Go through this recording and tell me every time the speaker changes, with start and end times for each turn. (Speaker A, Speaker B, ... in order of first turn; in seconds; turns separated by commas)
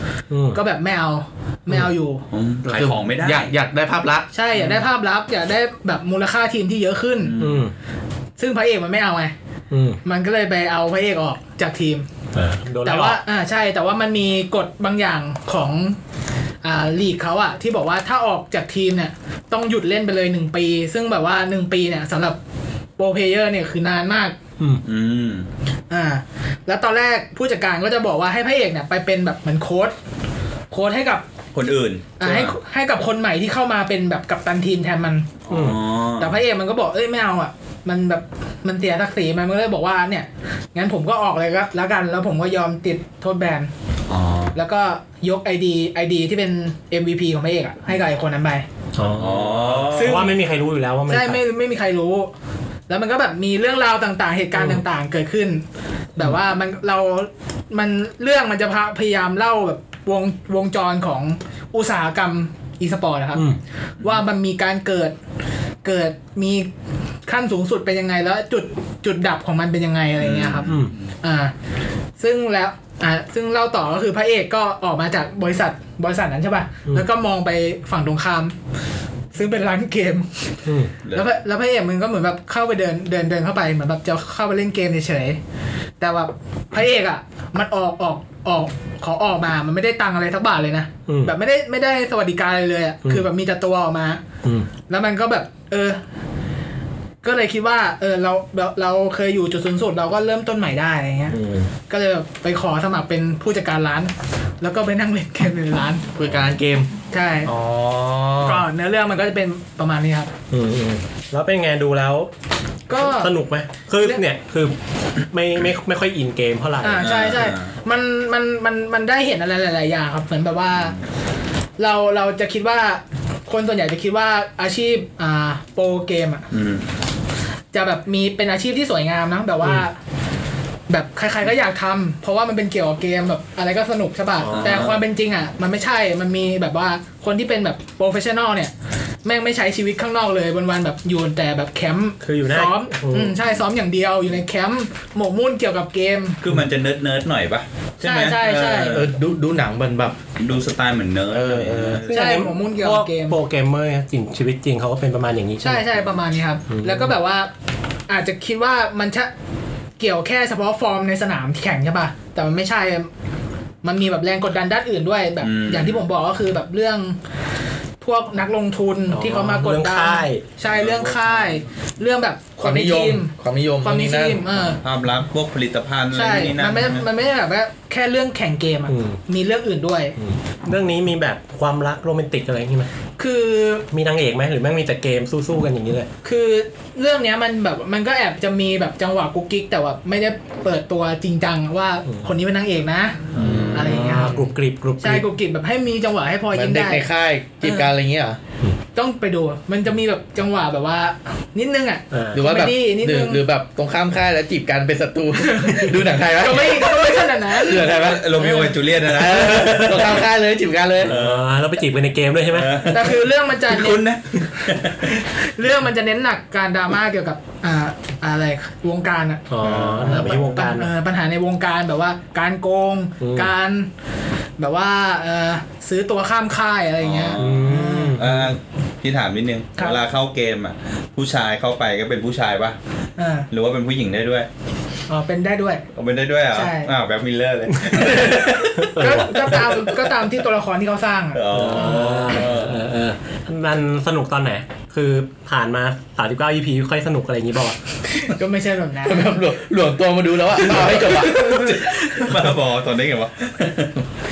Speaker A: 0.3-0.6, Speaker B: 0.5-2.2, Speaker C: 2.3-3.5, Speaker D: 2.6-4.3, Speaker B: 4.3-7.4, Speaker C: 7.2-7.6, Speaker A: 7.4-7.7, Speaker B: 8.4-9.3, Speaker A: 9.7-10.0, Speaker B: 10.0-12.1, Speaker A: 12.3-13.2, Speaker B: 12.8-16.0, Speaker B: 16.6-22.4, Speaker B: 23.0-24.4, Speaker C: 24.8-25.5, Speaker B: 25.9-29.9, Speaker B: 30.7-31.2, Speaker C: 31.5-32.5, Speaker B: 32.2-35.3, Speaker C: 35.4-36.4, Speaker A: 35.5-35.8, Speaker B: 36.2-43.7, Speaker C: 44.1-44.5, Speaker B: 44.5-48.6, Speaker A: 49.0-51.4, Speaker C: 49.2-50.3, Speaker B: 49.9-50.3, Speaker B: 51.1-52.3, Speaker B: 52.9-55.6, Speaker A: 54.5-54.8, Speaker B: 56.1-63.4, Speaker B: 64.0-65.1, Speaker B: 65.8-66.7, Speaker B: 67.2-71.5, Speaker C: 70.2-71.0, Speaker A: 70.7-70.9, Speaker B: 72.2-78.5, Speaker B: 79.3-80.3, Speaker A: 80.6-80.9, Speaker C: 81.0-81.3, Speaker B: 81.1-85.4, Speaker B: 86.0-94.2, Speaker A: 91.1-91.3, Speaker B: 94.9-96.0, Speaker B: 97.2-101.4, Speaker A: 101.3-101.7, Speaker B: 101.9-106.1, Speaker D: 106.1-106.9, Speaker B: 107.1-107.5, Speaker D: 107.5-108.7, Speaker B: 108.4-110.3, Speaker A: 110.5-112.3, Speaker B: 112.9-113.3, Speaker A: 112.9-114.7, Speaker A: 115.3-117.2, Speaker B: 116.8-121.0, Speaker C: 117.0-117.7, Speaker B: 121.8-126.5, Speaker C: 126.5-126.9, Speaker B: 127.7-129.9, Speaker B: 130.9-138.7, Speaker A: 134.4-135.0, Speaker C: 134.6-135.0, Speaker B: 139.2-146.4, Speaker A: 142.2-143.4, Speaker C: 146.4-149.1, Speaker B: 148.0-149.0, Speaker D: 148.9-150.2, Speaker C: 150.4-152.5, Speaker D: 151.3-152.1, Speaker A: 152.0-156.0, Speaker B: 152.1-153.4, Speaker B: 155.6-157.5, Speaker A: 156.7-157.1, Speaker B: 158.1-159.3, Speaker B: 160.0-163.1, Speaker B: 163.8-167.2, Speaker C: 165.4-166.0, Speaker B: 168.0-173.3, Speaker A: 169.1-170.4, Speaker C: 170.7-171.3, Speaker D: 172.6-174.4, Speaker B: 173.8-174.8, Speaker C: 174.8-177.1, Speaker B: 176.1-180.1, Speaker A: 178.9-179.2, Speaker A: 180.2-182.9, Speaker B: 183.2-183.9, Speaker A: 183.9-186.1, Speaker B: 186.2-197.1, Speaker A: 192.1-192.3, Speaker C: 193.3-194.2, Speaker A: 193.3-195.2, Speaker D: 196.5-198.4, Speaker B: 197.6-197.9, Speaker B: 198.9-203.4, Speaker A: 202.1-202.4, Speaker D: 202.3-211.1, Speaker B: 205.4-207.8, Speaker C: 207.8-210.2, Speaker C: 211.0-211.4, Speaker A: 211.0-212.7, Speaker C: 212.5-215.3, Speaker B: 212.9-214.0, Speaker B: 215.5-223.9, Speaker A: 219.5-220.9, Speaker C: 219.8-220.1, Speaker A: 223.2-223.5, Speaker B: 224.6-228.2, Speaker C: 227.0-232.8, Speaker A: 227.4-228.5, Speaker B: 233.2-233.5, Speaker C: 233.5-234.5, Speaker B: 235.1-235.8, Speaker C: 235.9-240.1, Speaker B: 236.5-236.9, Speaker B: 237.9-242.3, Speaker A: 238.8-239.6, Speaker C: 241.3-242.8, Speaker A: 241.5-247.8, Speaker B: 248.2-249.3, Speaker D: 249.1-251.7, Speaker C: 251.1-254.0, Speaker B: 251.4-251.9